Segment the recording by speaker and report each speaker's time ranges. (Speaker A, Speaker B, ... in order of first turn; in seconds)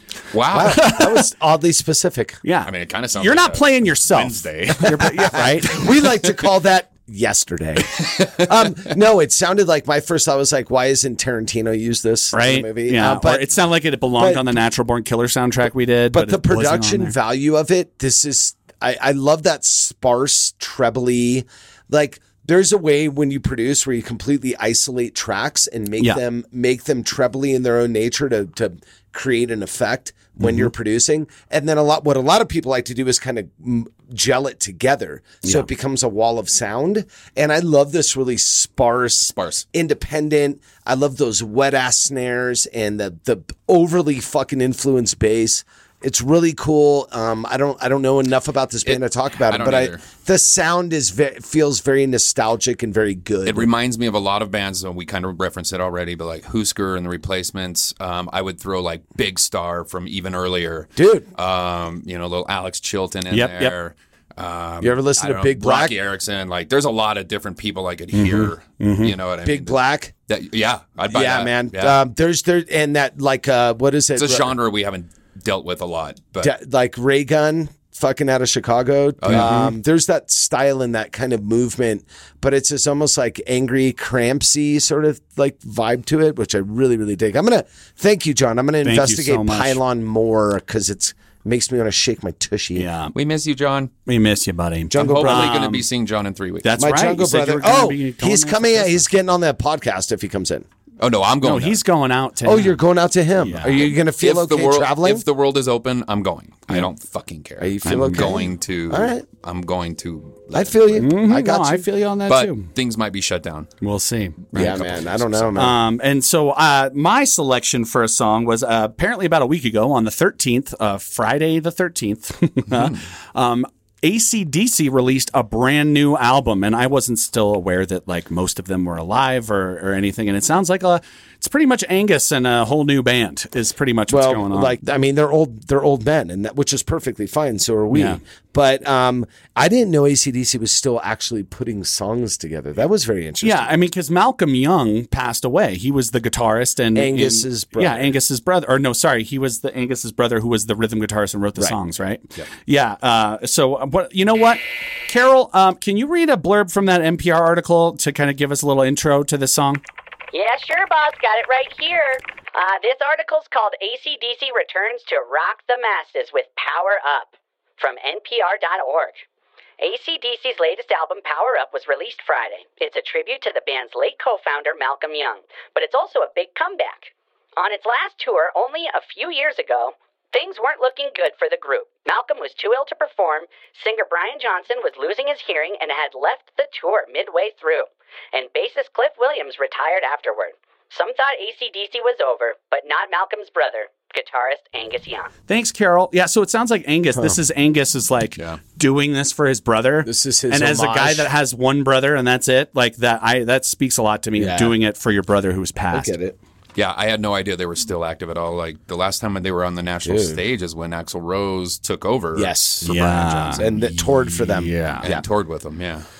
Speaker A: 0.3-0.8, 2.6-5.3, 8.0-8.3, 39.3-39.6, 48.8-50.0, 53.5-72.0, 74.2-76.5, 79.2-79.5, 93.1-93.9, 94.9-96.7, 101.0-101.8, 103.7-111.0, 112.3-113.7, 114.5-115.6, 122.7-123.0, 206.8-216.1
Speaker B: 0.5-2.4, 5.3-13.5, 14.2-14.5, 16.1-53.7, 61.0-61.3, 64.8-65.9, 69.4-70.1, 71.1-74.5, 76.4-92.9, 94.9-95.5, 96.8-100.7, 102.4-105.2, 107.6-109.2, 110.5-111.8, 114.5-115.8, 134.1-143.7, 146.9-148.1, 200.0-201.3, 204.3-204.8, 205.9-206.4, 210.0-210.4, 212.3-212.9, 213.5-215.2
Speaker C: 0.6-1.2, 2.4-5.8, 12.3-17.1, 30.4-30.7, 63.3-63.7, 68.1-69.1, 79.3-79.7, 88.8-89.8, 92.8-93.1, 94.0-95.8, 96.6-99.0, 101.4-102.8, 103.4-103.8, 107.8-108.3, 111.0-112.7, 113.8-114.7, 115.5-134.8, 137.9-138.2, 143.4-159.8, 195.5-206.1, 212.8-213.6, 214.5-215.1
Speaker D: 160.3-169.2, 169.8-195.3